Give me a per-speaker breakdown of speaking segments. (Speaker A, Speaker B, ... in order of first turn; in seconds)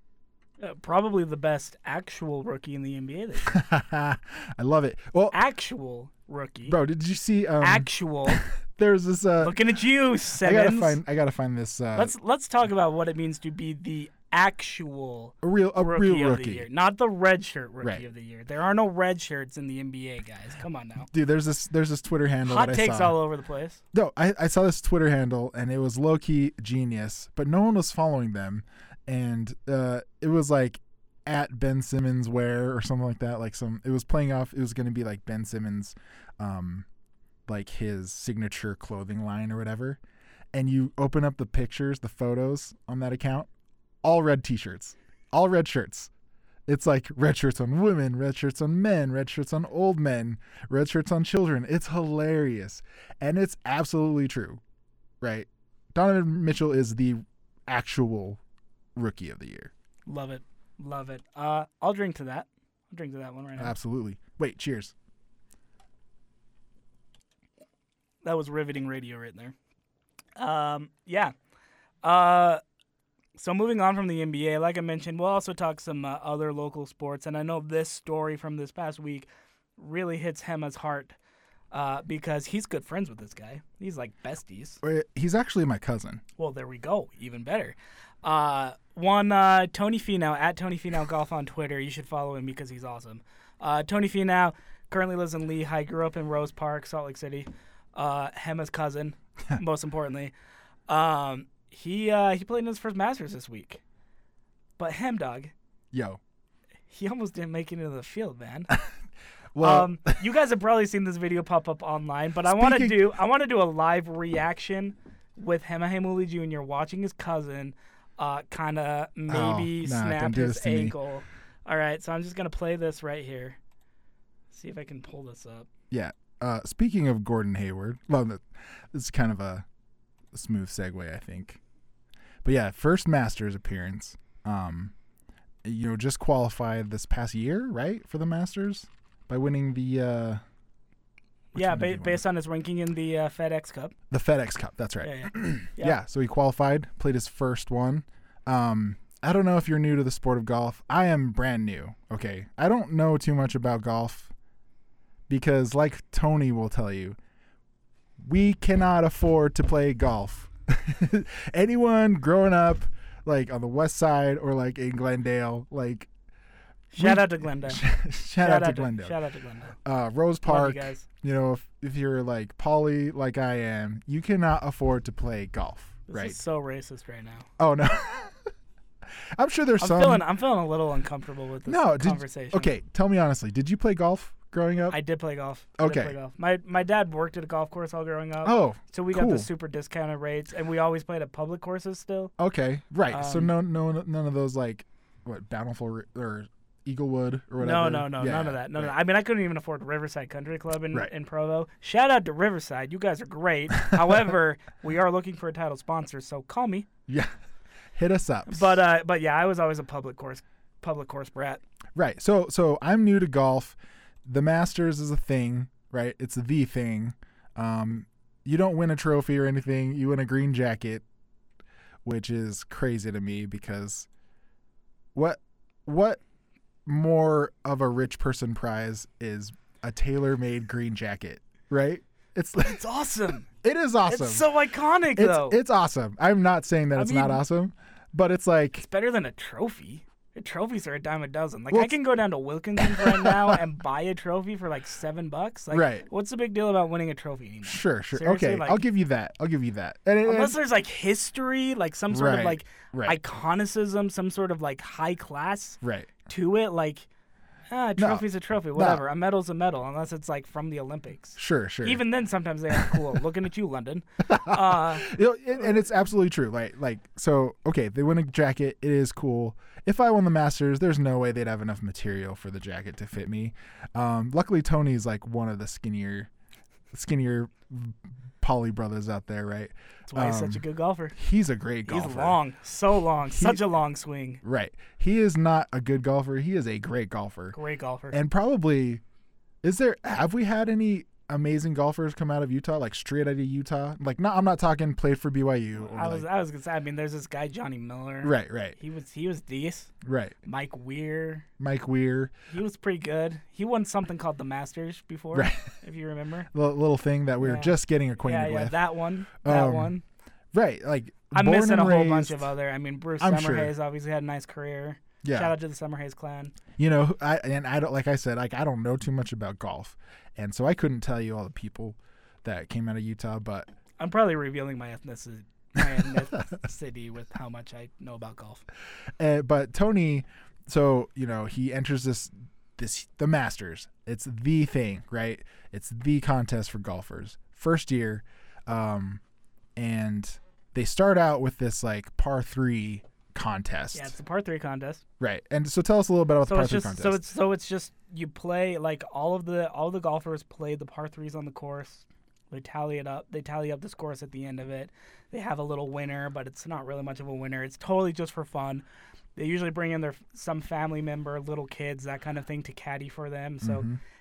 Speaker A: 0.6-3.6, 5.3-6.8, 7.6-8.4, 9.4-11.0, 11.9-21.1, 22.4-23.8, 60.1-63.7, 68.2-69.5, 70.4-71.3, 72.0-72.6, 73.3-81.2, 81.7-84.8, 86.4-100.3, 100.9-103.8, 104.8-105.5, 106.9-108.7, 109.6-123.6, 124.5-125.7, 141.5-143.9, 145.0-146.0, 166.9-167.8, 168.4-169.8, 170.4-171.1, 176.1-177.5, 179.8-182.7, 184.9-192.3, 193.1-193.5, 197.6-206.9, 208.5-211.6, 232.6-233.5, 234.1-235.6, 236.9-237.4, 238.8-248.8, 250.2-257.1, 257.7-265.1, 280.1-281.1, 281.9-284.4, 287.5-288.2, 295.8-299.9, 300.4-301.4, 302.5-306.5, 307.4-310.0, 311.3-316.5, 324.0-328.6, 343.9-345.0, 346.4-358.8, 359.4-363.9
Speaker B: 3.5-5.3, 6.7-9.6, 10.4-12.1, 15.4-16.7, 21.1-23.2, 23.9-36.9, 37.5-40.0, 40.5-43.5, 44.0-46.1, 46.7-54.6, 55.2-58.4, 59.0-59.7, 63.6-64.9, 84.8-86.2, 105.9-106.2, 109.5-110.1, 112.4-113.1, 119.3-121.0, 125.9-129.7, 130.3-131.6, 132.4-134.9, 135.6-140.4, 141.5-142.2, 144.1-154.3, 155.3-157.2, 158.2-166.1, 167.0-169.2, 169.8-176.4, 177.6-178.4, 179.3-180.2, 181.7-185.0, 185.8-186.1, 188.4-189.5, 192.4-198.9, 207.1-207.3, 207.9-208.7, 211.9-221.0, 222.0-224.1, 225.1-226.2, 226.8-232.8, 233.5-234.5, 235.1-238.8, 241.7-242.0, 242.8-243.6, 245.7-246.0, 247.6-250.6, 252.1-253.2, 255.8-256.1, 258.0-259.0, 261.4-262.0, 262.7-263.0, 264.3-276.3, 276.9-282.4, 283.3-283.6, 284.4-287.6, 288.1-289.0, 289.6-296.2, 298.2-298.8, 300.0-300.4, 301.6-302.3, 305.3-305.7, 306.5-308.8, 309.4-309.9, 310.5-312.5, 313.2-313.7, 315.2-315.5, 316.8-323.7, 329.2-339.2, 339.8-344.1, 345.2-347.3, 363.6-364.0